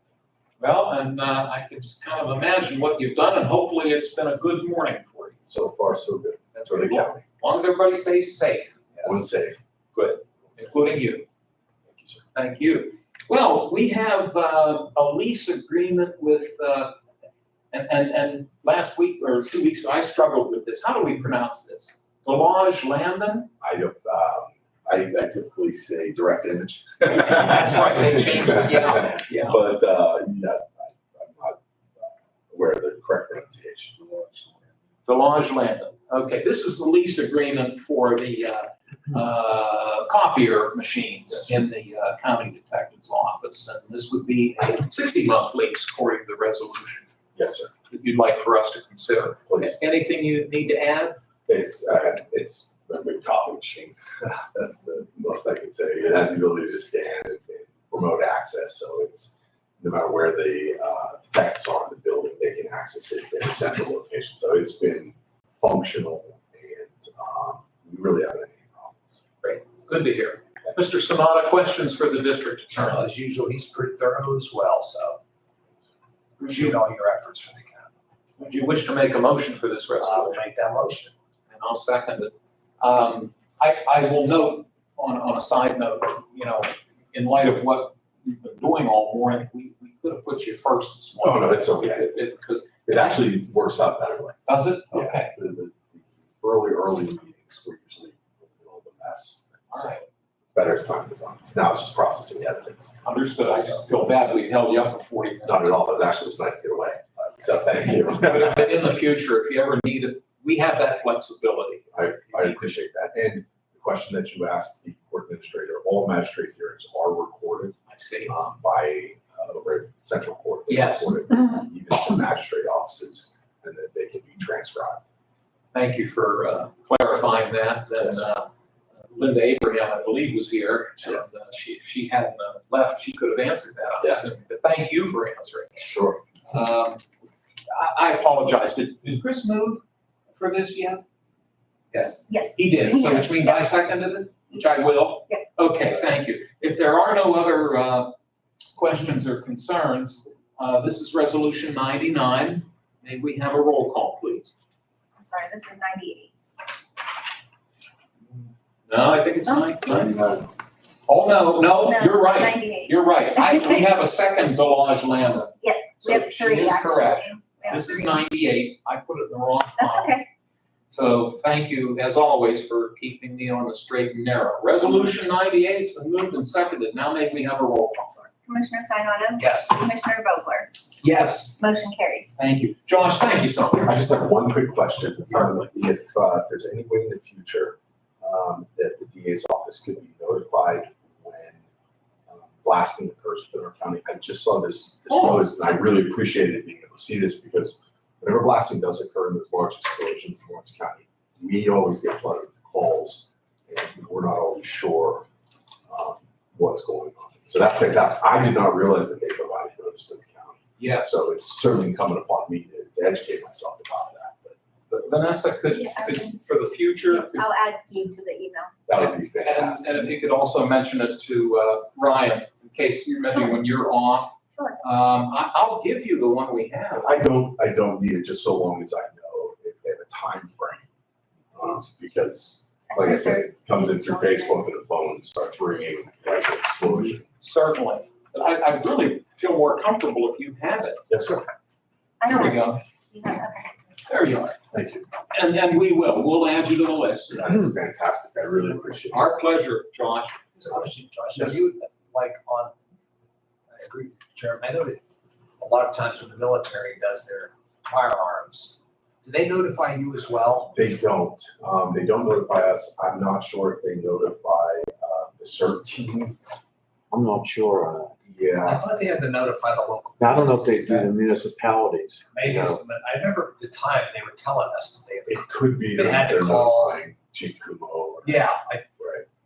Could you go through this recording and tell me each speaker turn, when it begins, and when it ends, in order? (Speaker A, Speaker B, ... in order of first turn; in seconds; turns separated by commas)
Speaker A: 0.6-5.4, Speaker B: 5.5-7.2, Speaker A: 6.5-9.2, Speaker B: 9.0-9.6, Speaker A: 9.9-11.2, Speaker B: 11.8-12.2, Speaker A: 12.3-16.9, Speaker A: 17.7-23.5, Speaker B: 23.6-34.0, Speaker A: 27.0-29.6, Speaker A: 35.0-47.1, Speaker B: 47.3-47.7, Speaker A: 47.9-51.2, Speaker B: 49.5-49.8, Speaker B: 51.5-69.2, Speaker A: 69.4-73.1, Speaker C: 72.8-75.2, Speaker C: 76.4-77.9, Speaker A: 78.4-80.4, Speaker C: 80.0-81.2, Speaker A: 81.5-92.8, Speaker B: 91.2-92.1, Speaker B: 92.8-94.4, Speaker A: 94.5-95.3, Speaker B: 94.9-100.0, Speaker A: 99.7-100.0, Speaker B: 100.5-103.0, Speaker A: 103.0-105.8, Speaker B: 105.4-108.8, Speaker A: 108.0-112.7, Speaker B: 111.9-125.0, Speaker A: 117.9-118.3, Speaker A: 120.7-121.3, Speaker A: 125.7-128.5, Speaker B: 128.0-128.2, Speaker A: 129.0-135.9, Speaker B: 134.0-134.3, Speaker B: 135.8-136.2, Speaker A: 136.5-137.0, Speaker A: 137.7-141.0, Speaker A: 141.9-148.1, Speaker D: 142.3-143.6, Speaker A: 148.7-154.5, Speaker D: 155.2-156.3, Speaker A: 158.9-160.3, Speaker D: 159.5-159.8, Speaker E: 159.9-160.4, Speaker A: 161.1-170.2, Speaker D: 161.7-163.8, Speaker D: 165.6-168.2, Speaker D: 169.8-170.3, Speaker A: 170.9-178.3, Speaker D: 178.4-180.7, Speaker C: 179.4-179.8, Speaker A: 181.0-181.6, Speaker D: 181.6-182.4, Speaker A: 182.4-184.3, Speaker B: 183.8-191.6, Speaker A: 185.3-185.6, Speaker B: 192.3-205.3, Speaker A: 195.1-195.5, Speaker B: 205.9-214.6, Speaker A: 210.8-211.1, Speaker A: 214.9-217.4, Speaker D: 215.7-216.5, Speaker D: 217.1-218.8, Speaker B: 218.9-220.1, Speaker A: 218.9-227.2, Speaker D: 223.2-223.6, Speaker B: 226.9-230.9, Speaker B: 231.5-237.3, Speaker D: 232.9-234.6, Speaker A: 237.4-241.0, Speaker B: 241.1-241.4, Speaker D: 242.2-243.8, Speaker A: 242.2-242.8, Speaker A: 244.1-244.6, Speaker B: 244.7-245.1, Speaker A: 245.3-247.4, Speaker B: 247.3-249.3, Speaker A: 249.1-250.8, Speaker C: 250.6-252.7, Speaker B: 251.3-251.6, Speaker C: 253.7-255.0, Speaker C: 255.6-260.8, Speaker B: 260.7-266.4, Speaker E: 267.1-268.1, Speaker B: 268.2-268.8, Speaker C: 268.6-271.1, Speaker E: 270.2-272.8, Speaker C: 272.3-277.0, Speaker B: 275.3-278.4, Speaker C: 278.2-278.9, Speaker B: 279.0-279.2